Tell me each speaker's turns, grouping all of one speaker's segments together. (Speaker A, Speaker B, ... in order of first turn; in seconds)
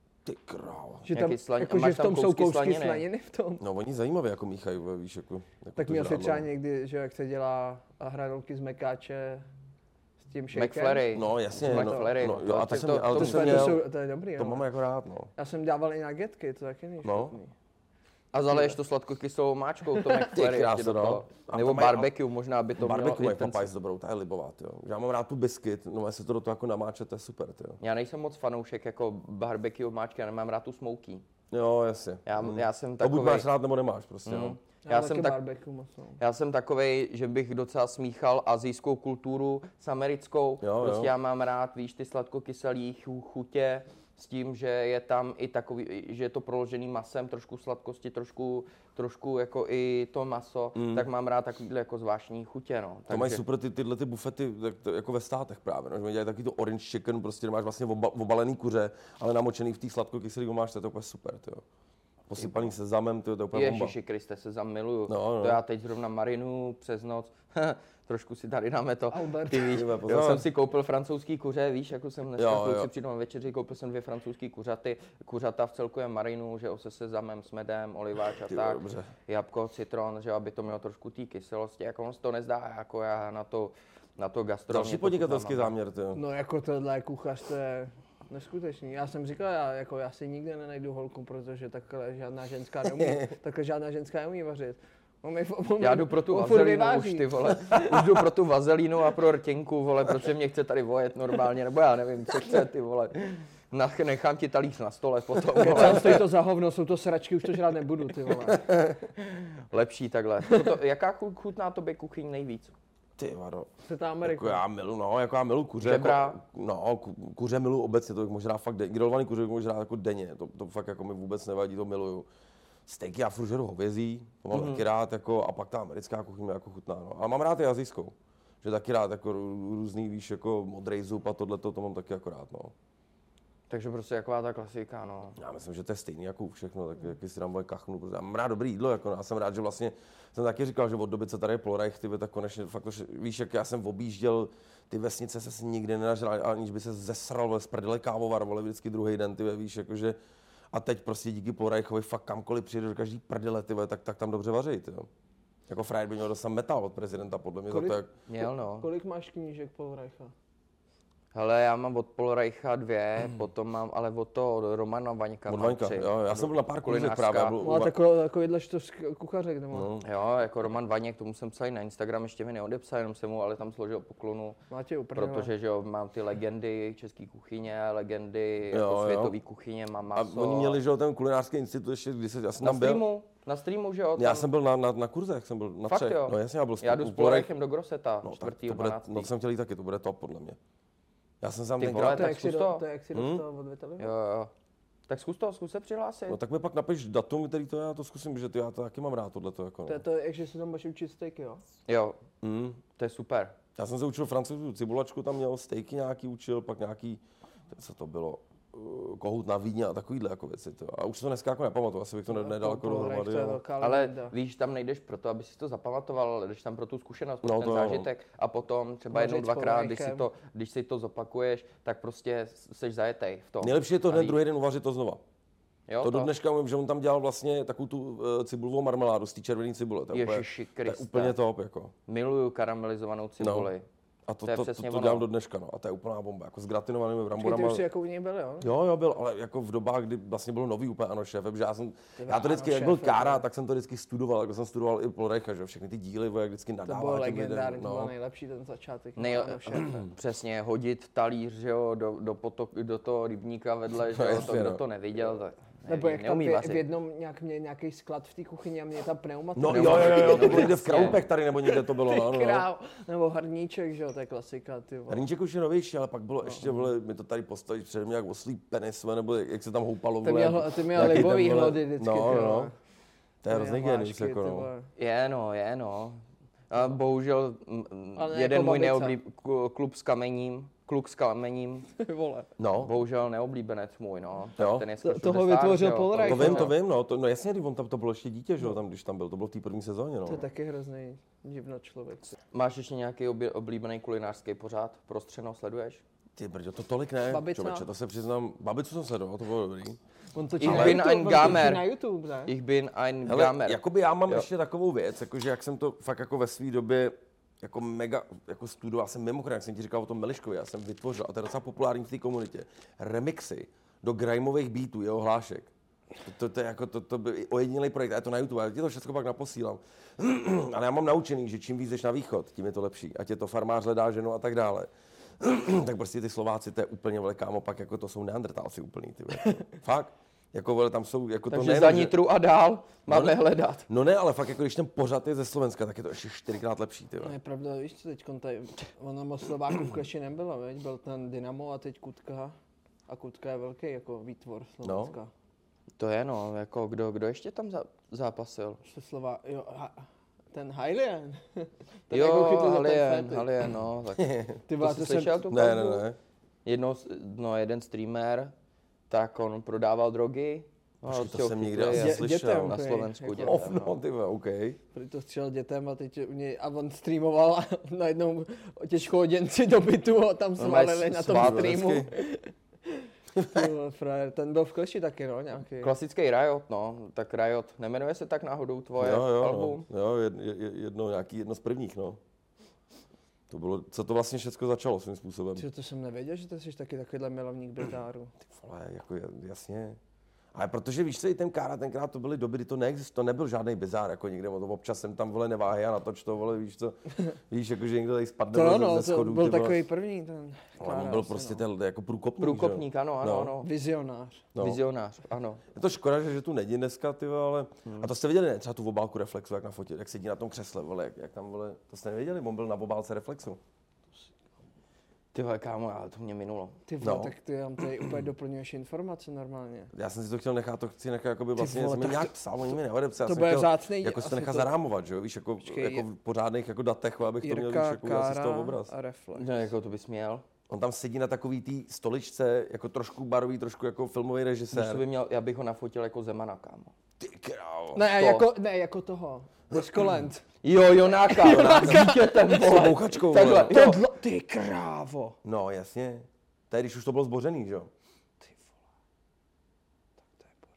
Speaker A: 0.2-1.1, 3.6-6.5, 11.1-13.8, 14.4-15.3, 17.0-17.4, 20.2-22.1, 22.8-27.8, 31.5-34.6, 40.6-41.1, 50.8-51.1, 53.1-61.6, 62.3-63.9, 65.1-65.6, 69.7-70.5, 72.4-72.9, 78.5-79.1, 84.7-86.2, 93.0-93.3, 97.7-98.0, 108.5-109.0, 113.2-113.7, 114.2-122.3, 122.9-132.7, 135.4-150.2, 150.7-155.1, 155.7-158.1, 165.5-167.9, 169.7-170.1, 178.7-179.4, 180.1-183.1, 184.2-187.5, 188.2-190.6, 191.4-192.5, 193.1-193.4, 196.3-200.0, 202.4-202.8, 203.8-213.6, 217.4-218.1, 223.6-225.2, 226.0-231.9, 233.4-233.7, 234.3-237.8, 238.6-248.1, 254.1-254.8, 259.6-262.7, 265.1-272.7, 273.4-274.7, 282.6-282.9, 284.6-284.9, 286.2-290.4, 296.4-300.0, 300.6-301.1, 303.3-315.7, 316.2-332.2, 333.1-337.3, 344.8-345.1, 354.2-354.6, 355.5-356.2, 361.0-362.8, 363.4-364.8, 371.1-372.1, 373.4-373.7, 379.0-382.2, 383.5-385.6, 388.4-390.0, 390.5-397.0, 397.5-399.8, 400.8-403.5, 404.6-404.8, 405.7-413.6, 417.0-417.3, 419.9-428.9, 430.7-435.1, 437.2-438.0, 441.5-444.0, 445.4-447.9
Speaker B: 1.1-3.6, 5.8-9.5, 10.2-12.2, 13.1-14.7, 15.4-17.5, 34.9-36.2, 69.1-69.8, 86.1-97.3, 105.6-108.6, 113.8-114.6, 157.7-158.0, 158.8-160.3, 167.6-169.9, 174.7-175.5, 191.9-194.1, 199.9-201.6, 212.3-214.3, 219.1-220.3, 237.4-238.7, 242.2-243.4, 246.9-250.0, 255.9-265.3, 266.4-266.8, 270.2-272.8, 273.5-274.9, 278.2-279.2, 282.0-282.5, 285.0-286.7, 290.3-292.3, 297.3-297.9, 300.3-302.5, 337.2-342.5, 343.1-345.3, 348.8-353.5, 354.7-356.0, 361.9-363.7, 364.9-375.9, 385.6-388.3, 398.5-401.6, 403.6-404.5, 416.9-419.9, 421.6-422.4, 423.2-424.7, 425.6-426.1, 427.4-429.6, 437.9-440.4, 441.2-442.9, 443.7-445.4
Speaker C: 1.1-3.0, 10.5-13.8, 18.3-23.7, 27.8-31.2, 32.3-33.5, 34.3-35.4, 36.2-53.4, 63.5-85.7, 95.8-106.2, 109.2-112.7, 115.8-116.4, 124.5-124.8, 133.7-135.4, 158.3-158.9, 161.3-167.6, 170.0-174.6, 175.2-180.8, 182.6-184.5, 185.9-189.3, 191.8-192.8, 194.0-194.5, 195.1-196.4, 201.9-202.2, 203.0-203.6, 213.8-224.4, 225.9-226.3, 230.1-231.4, 232.1-233.8, 234.4-235.3, 249.2-256.8, 259.7-261.2, 275.0-281.9, 282.8-286.7, 292.5-296.0, 300.6-301.9, 302.5-304.5, 331.5-333.9, 346.0-348.8, 352.1-354.3, 354.8-355.8, 356.6-358.5, 359.1-364.0, 370.6-371.9, 375.8-379.9, 402.4-403.7, 404.6-405.6, 415.3-416.8, 429.4-430.4, 434.7-436.9, 438.1-438.4, 440.6-444.0